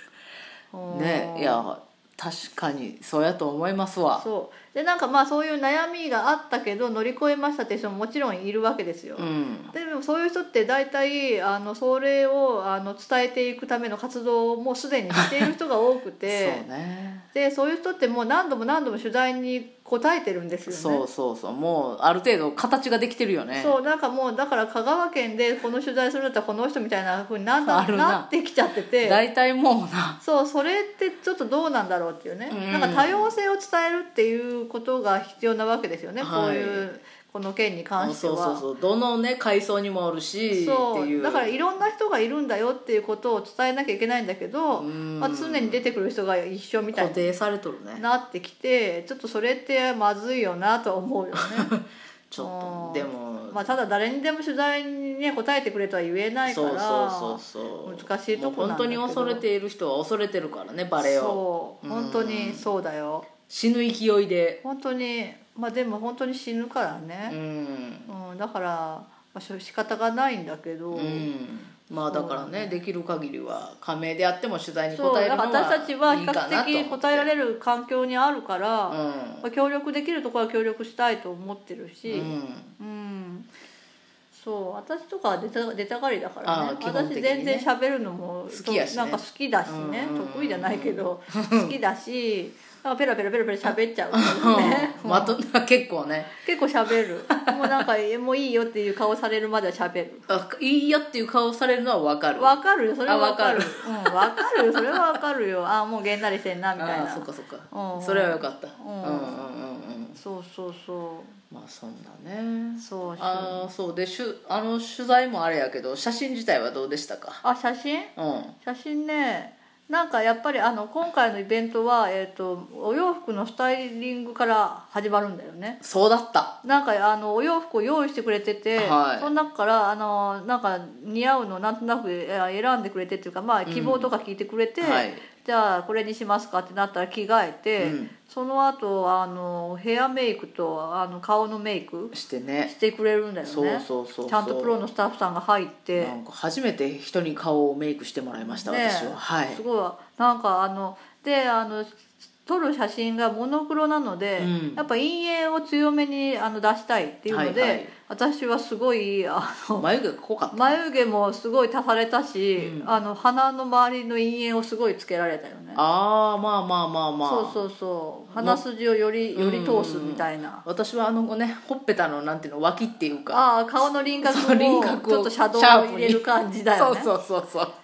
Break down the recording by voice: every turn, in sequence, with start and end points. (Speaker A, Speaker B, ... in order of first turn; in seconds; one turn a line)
Speaker A: 0.7-1.6
Speaker B: 0.9-4.2
Speaker A: 4.2-16.6
Speaker B: 9.2-9.7
Speaker B: 15.1-15.5
Speaker B: 16.2-17.3
Speaker A: 17.3-21.0
Speaker B: 20.7-23.8
Speaker A: 23.5-29.2
Speaker B: 27.6-28.3
Speaker B: 29.0-30.2
Speaker A: 30.2-38.6
Speaker B: 32.5-33.3
Speaker B: 36.2-36.9
Speaker B: 38.0-41.6
Speaker A: 40.5-47.3
Speaker B: 44.7-45.9
Speaker B: 46.9-48.0
Speaker A: 48.0-51.7
Speaker B: 51.6-53.7
Speaker A: 52.4-59.4
Speaker B: 56.5-62.7
Speaker A: 61.0-63.3
Speaker B: 63.5-64.6
Speaker A: 64.6-67.4
Speaker B: 67.3-68.1
Speaker A: 68.1-71.3
Speaker B: 70.9-77.3
Speaker A: 72.0-72.8
Speaker A: 74.9-83.5
Speaker B: 78.9-79.5
Speaker B: 82.1-82.7
Speaker A: 84.3-95.4
Speaker B: 86.4-87.7
Speaker B: 88.5-91.8
Speaker B: 94.1-96.4
Speaker A: 96.4-100.2
Speaker B: 97.3-97.7
Speaker B: 100.3-105.2
Speaker A: 102.4-109.4
Speaker B: 106.8-110.2
Speaker A: 110.2-111.4
Speaker B: 111.5-117.4
Speaker A: 112.8-113.7
Speaker A: 117.4-125.8
Speaker B: 118.2-118.5
Speaker B: 125.8-126.6
Speaker A: 126.6-142.1
Speaker B: 128.8-129.3
Speaker B: 133.7-134.1
Speaker B: 134.8-135.2
Speaker B: 137.8-138.1
Speaker B: 142.1-142.7
Speaker A: 142.6-146.1
Speaker B: 143.4-144.8
Speaker B: 146.0-149.6
Speaker A: 148.4-159.9
Speaker B: 154.4-154.8
Speaker B: 157.3-157.9
Speaker B: 159.8-160.8
Speaker A: 160.5-165.8
Speaker B: 162.6-162.9
Speaker B: 165.8-167.6
Speaker A: 167.2-170.6
Speaker B: 168.3-168.6
Speaker B: 169.3-176.2
Speaker A: 173.3-177.1
Speaker B: 176.8-177.7